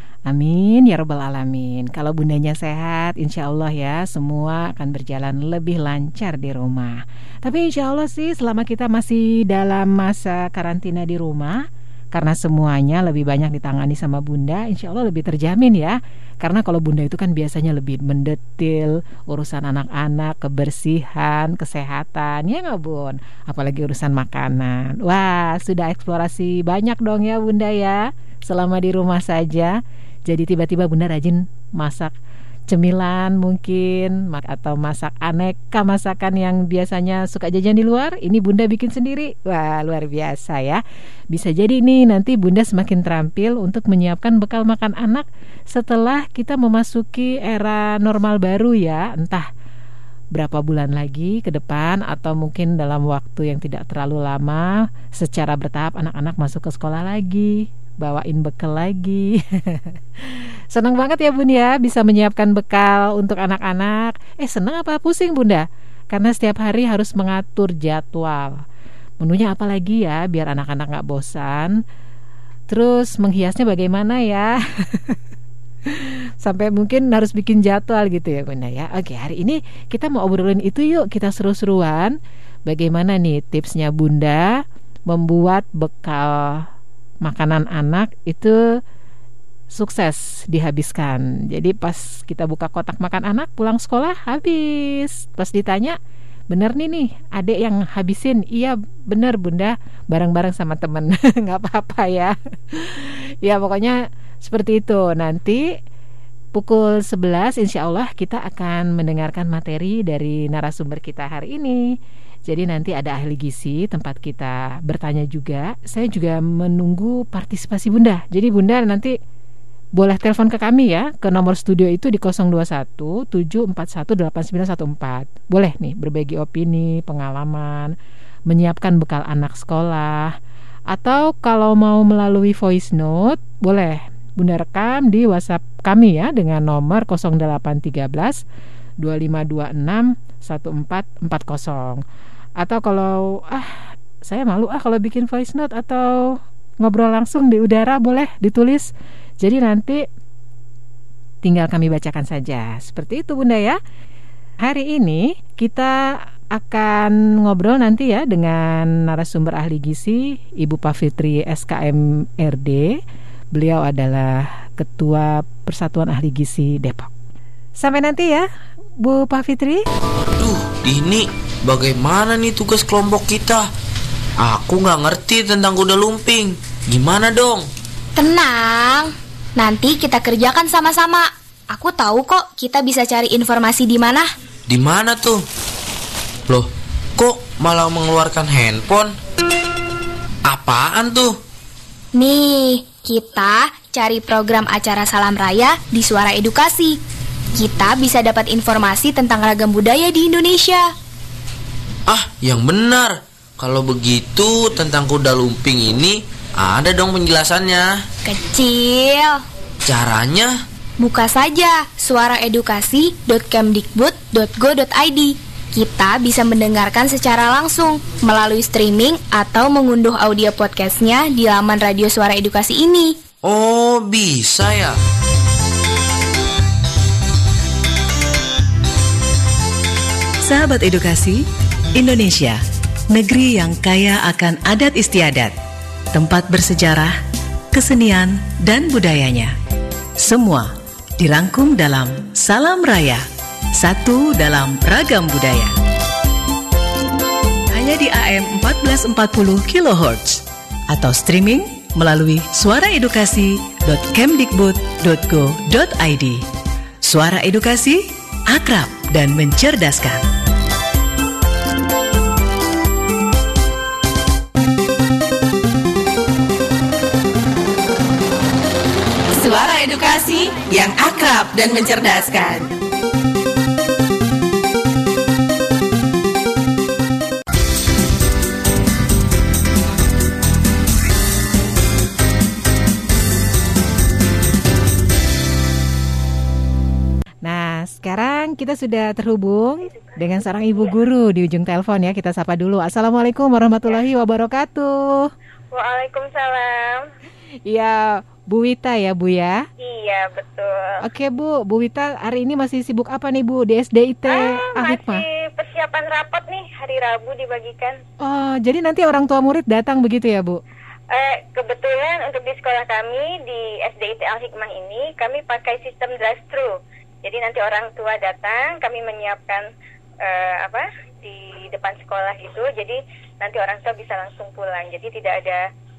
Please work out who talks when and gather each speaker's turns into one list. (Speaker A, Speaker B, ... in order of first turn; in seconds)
Speaker A: 0.3-11.6, 12.1-29.8, 30.3-32.1, 32.7-40.8, 41.3-49.5, 50.3-68.5, 69.2-71.7, 72.7-75.2, 75.8-82.1, 82.7-86.7, 87.2-88.6, 89.7-96.0, 96.5-105.6, 106.5-111.8, 112.5-119.1, 120.0-127.9, 128.5-130.3, 130.9-138.4, 139.0-142.0, 142.6-150.0, 151.4-153.8, 154.6-156.0, 156.5-163.0, 163.5-167.1, 167.8-168.4, 169.0-169.8, 287.4-295.3, 297.7-299.6, 301.0-305.2, 308.2-310.6
Speaker B: 170.4-173.7, 174.4-177.7, 184.7-185.4, 186.5-189.1, 190.4-191.3, 202.1-207.9, 209.8-210.5, 223.4-225.0
Speaker C: 178.2-184.3, 192.2-197.0, 197.6-200.8, 208.2-209.4, 211.0-223.1
Speaker D: 230.4-231.4, 231.9-232.6, 233.1-235.5, 236.1-237.2, 237.7-239.5, 240.2-243.2, 243.8-245.7, 247.7-256.4, 257.0-260.2
Speaker E: 269.3-272.7
Speaker F: 289.9-290.2, 295.7-297.1, 299.8-301.0, 304.3-308.0, 311.1-319.7, 320.2-325.6